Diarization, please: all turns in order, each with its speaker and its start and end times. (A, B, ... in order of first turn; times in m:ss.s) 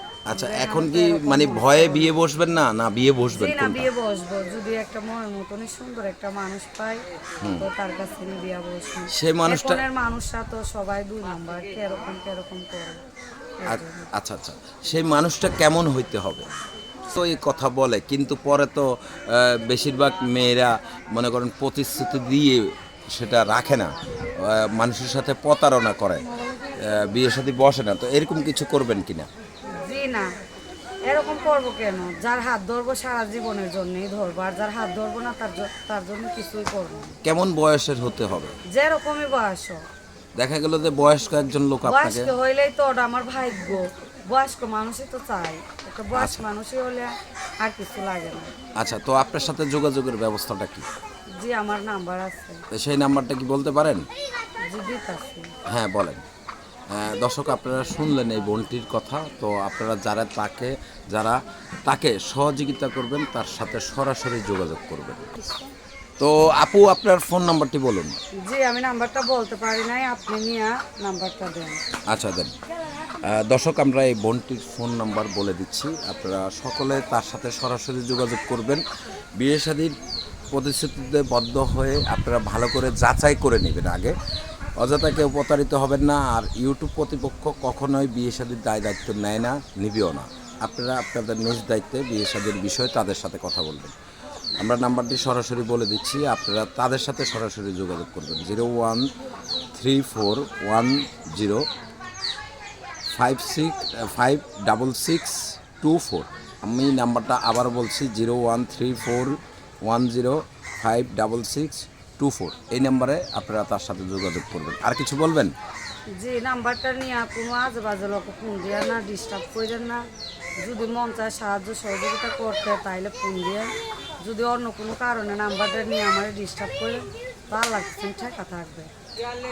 0:00.3-0:03.9 A
0:00.3-0:02.1 B
0:03.3-0:07.0 B
0:07.4-0:07.6 A
0:07.6-0:13.0 B
0:09.1-0:09.8 A
0:13.6-0:14.1 B
0:13.6-0:16.5 A
0:17.1-0:26.2 A
0:26.3-0:26.8 B
0:26.8-0:29.3 A
0:29.7-0:30.3 B
0:31.1-0:37.2 B
0:37.2-0:38.5 A
0:38.7-0:39.8 B
0:40.4-0:42.3 A
0:41.8-0:48.5 B
0:46.1-0:46.4 A
0:48.8-0:50.9 A
0:51.4-0:52.6 B
0:52.7-0:54.1 A
0:54.7-0:55.5 B
0:55.7-0:56.2 A
0:56.9-1:05.3 A
1:06.2-1:08.2 A
1:08.4-1:11.8 B
1:12.1-1:12.5 A
1:13.2-1:18.8 A
1:19.4-1:20.0 A
1:20.5-1:24.1 A
1:24.8-1:33.9 A
1:34.6-1:39.0 A
1:39.7-1:41.6 A
1:43.2-1:55.5 A
1:56.1-2:00.0 B
2:00.6-2:08.9 B